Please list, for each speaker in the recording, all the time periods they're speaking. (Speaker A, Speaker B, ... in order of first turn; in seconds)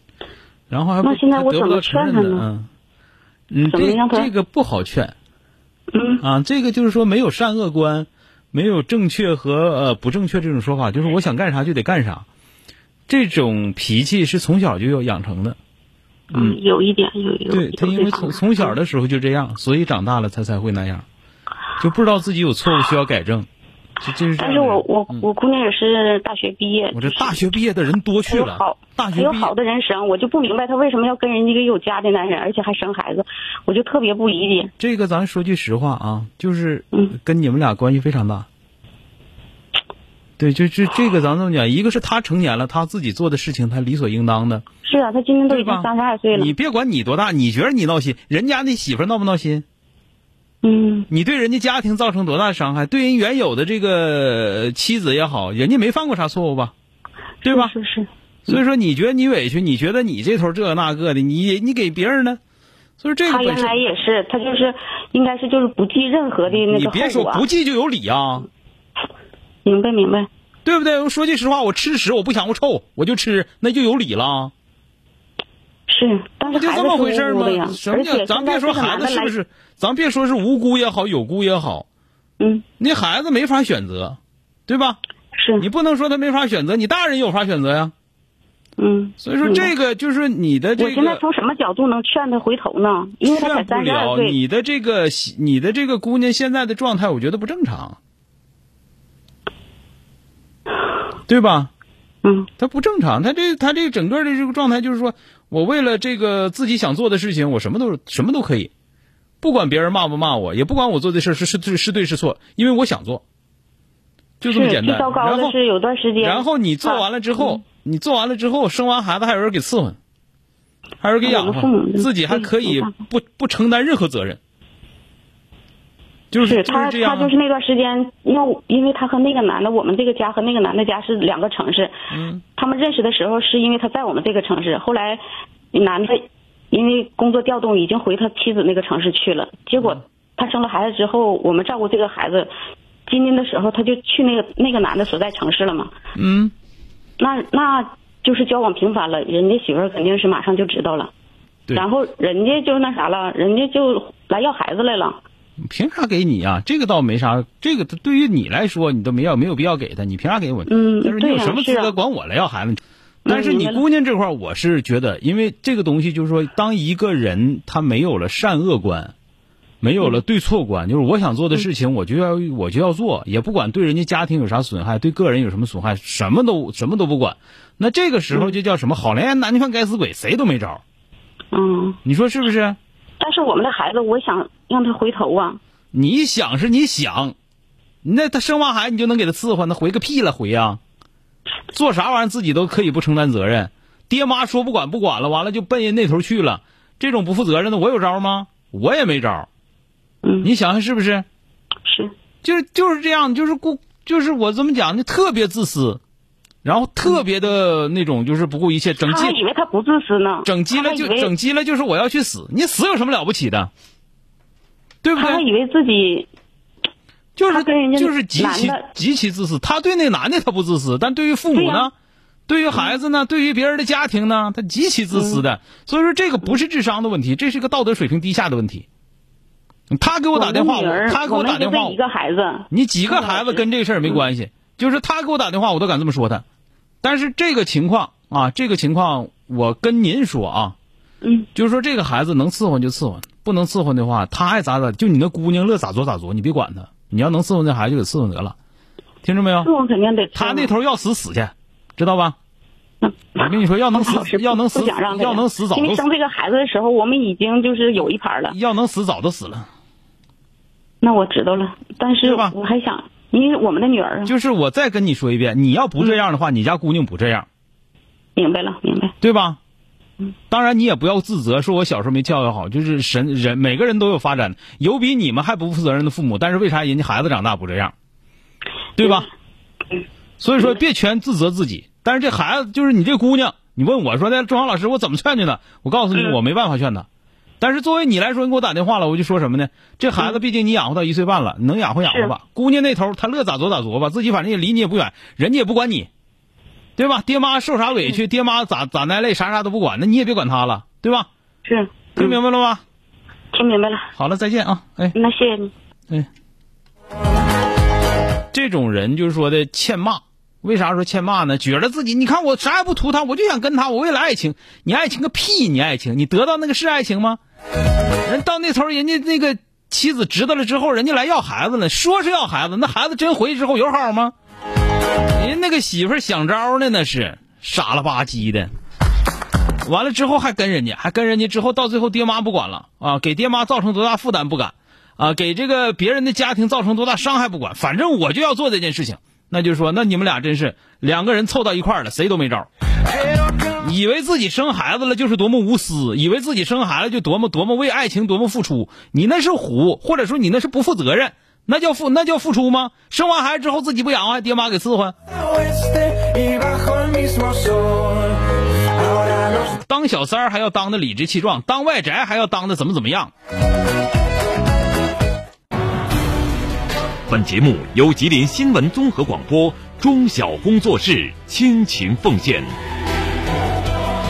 Speaker A: 0.7-2.7, 3.5-5.1, 6.2-12.2, 13.1-15.6, 16.3-16.6, 17.5-21.1, 21.8-23.5, 24.0-25.3, 26.9-29.5, 34.8-38.5, 40.4-44.6, 45.5-49.6, 51.1-56.7, 57.4-57.7, 58.5-62.4, 63.0-63.8, 66.5-68.5, 70.7-74.5, 76.5-81.9, 82.8-85.0, 85.6-87.9, 89.2-91.2, 93.2-98.0, 101.3-101.7, 102.6-108.7, 109.4-113.2, 114.4-115.6, 116.2-120.0, 121.0-124.4, 126.3-127.3, 132.1-132.4, 146.2-146.5, 155.6-169.1, 169.8-180.8, 182.0-182.8, 185.9-187.3, 188.0-190.8, 191.7-199.5, 200.4-201.3, 202.4-206.0, 206.6-209.4, 210.4-213.7, 215.0-215.4, 217.4-221.9, 222.5-228.8, 229.9-232.0, 232.7-236.4, 237.0-240.8, 241.6-248.6, 249.2-249.7, 250.3-252.4, 253.4-256.1, 258.5-259.7, 262.2-262.6, 264.2-267.5, 269.2-269.6, 270.5-277.9, 279.0-279.3, 280.4-287.1, 287.6-296.1, 297.0-301.3, 302.2-302.8, 304.2-305.1, 308.5-317.4, 318.2-324.3, 325.4-328.7, 329.8-342.7, 343.8-355.1, 359.7-363.3
Speaker B: 1.0-2.5, 3.7-4.3, 5.9-6.2, 16.3-18.8, 24.4-27.4, 28.3-34.7, 44.8-46.5, 50.6-51.1, 57.5-58.1, 63.2-67.5, 69.7-70.3, 75.9-79.3, 82.4-82.7, 85.3-85.7, 88.8-89.7, 90.8-94.4, 102.2-102.5, 114.5-117.6, 121.2-123.0, 126.4-131.9, 132.6-135.2, 135.7-142.5, 143.1-145.9, 147.2-151.1, 151.7-155.2, 160.7-161.9, 163.2-163.8, 181.5-182.0, 183.2-185.6, 200.2-200.5, 201.9-202.1, 209.0-211.3, 215.2-216.3, 217.5-218.9, 221.5-221.9, 225.1-225.4, 230.3-234.2, 241.2-241.5, 249.6-250.7, 253.0-258.6, 261.0-264.3, 268.4-269.1, 292.1-292.3, 301.6-302.4, 303.5-304.1, 305.1-305.7
Speaker C: 355.4-358.4, 359.0-359.6
Speaker D: 367.3-372.7